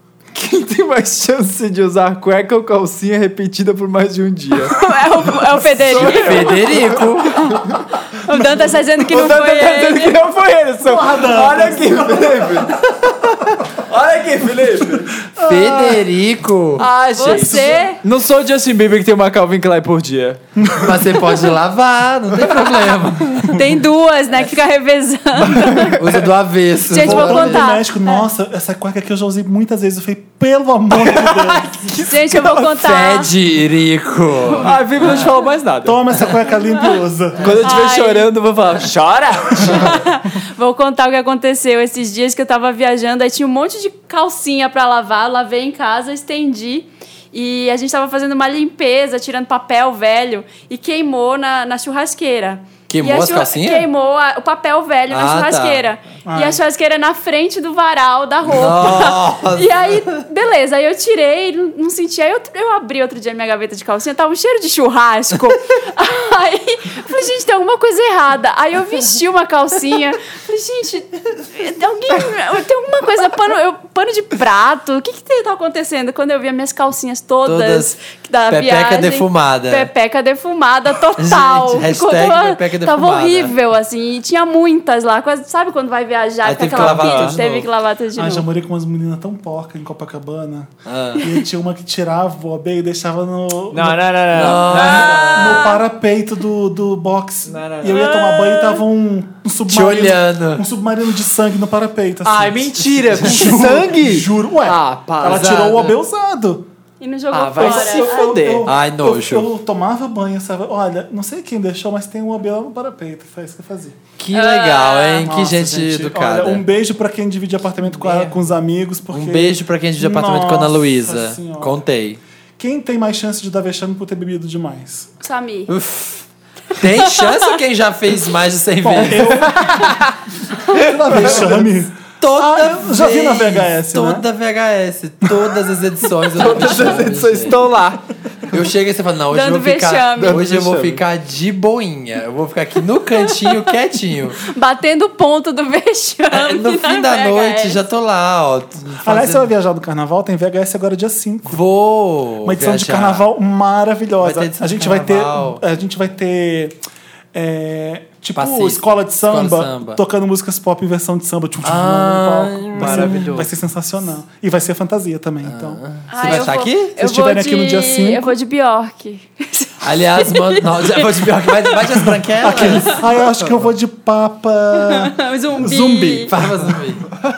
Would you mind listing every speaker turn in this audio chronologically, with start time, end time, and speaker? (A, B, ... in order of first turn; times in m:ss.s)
0:00.3-0:04.8 A
0:04.7-0:10.2 B
0:05.8-0:07.8 A
0:05.9-0:07.6 C
0:08.3-0:08.7 D
0:09.1-0:15.2 A
0:10.8-0:12.8 D
0:15.2-0:16.1 D
0:15.4-0:16.9 C
0:16.8-0:20.4 A
0:17.1-0:18.0 B
0:17.3-0:17.9 D
0:20.6-0:21.5 D
0:20.7-0:23.8 C
0:23.5-0:26.0 B
0:25.9-0:27.7 C
0:26.9-0:28.2 B
0:26.9-0:31.7 D
0:31.0-0:32.7 A
0:32.0-0:33.3 B
0:32.7-0:35.3 C
0:34.6-0:36.0 A
0:35.8-0:37.6 D
0:37.4-0:39.9 A
0:37.6-0:38.3 B
0:39.6-0:39.8 D
0:39.6-1:28.4 B
0:52.9-0:53.9 C
0:55.1-0:55.8 C
0:56.2-0:56.6 D
0:58.4-1:00.0 C
1:17.4-1:18.0 C
1:18.5-1:19.9 C
1:21.2-1:23.6 C
1:26.4-1:27.7 C
1:26.7-1:27.4 A
1:28.1-1:46.6 D
1:30.8-1:31.2 C
1:33.7-1:35.6 A
1:34.3-1:35.7 C
1:35.2-1:35.7 B
1:37.4-1:38.3 A
1:38.2-1:38.8 B
1:39.7-1:40.6 C
1:42.2-1:45.8 A
1:45.2-1:46.0 C
1:47.0-1:48.3 B
1:47.3-1:48.7 A
1:47.6-1:54.0 D
1:48.6-1:49.5 C
1:54.2-1:56.6 C
1:54.3-1:55.3 B
1:55.2-2:01.8 D
1:57.8-1:58.4 A
1:59.1-2:02.2 C
2:02.6-2:05.1 D
2:05.2-2:05.7 B
2:05.7-2:09.8 C
2:07.0-2:07.4 B
2:08.8-2:10.0 D
2:10.5-2:14.2 D
2:11.1-2:11.7 A
2:11.1-2:11.7 C
2:12.2-2:17.6 C
2:16.3-2:18.0 A
2:18.5-2:24.4 C
2:19.3-2:20.4 B
2:20.2-2:21.0 A
2:23.4-2:23.7 B
2:24.4-2:27.8 B
2:26.3-2:29.5 C
2:29.0-2:31.6 D
2:31.5-2:33.2 C
2:32.4-2:36.8 D
2:34.2-2:35.6 C
2:37.3-2:48.4 D
2:38.3-2:40.0 C
2:41.6-2:43.4 C
2:42.7-2:43.5 A
2:45.4-2:46.9 C
2:46.1-2:51.8 B
2:49.8-2:53.0 C
2:52.1-2:56.8 D
2:52.6-2:52.9 B
2:54.7-2:56.3 B
2:56.3-2:57.1 C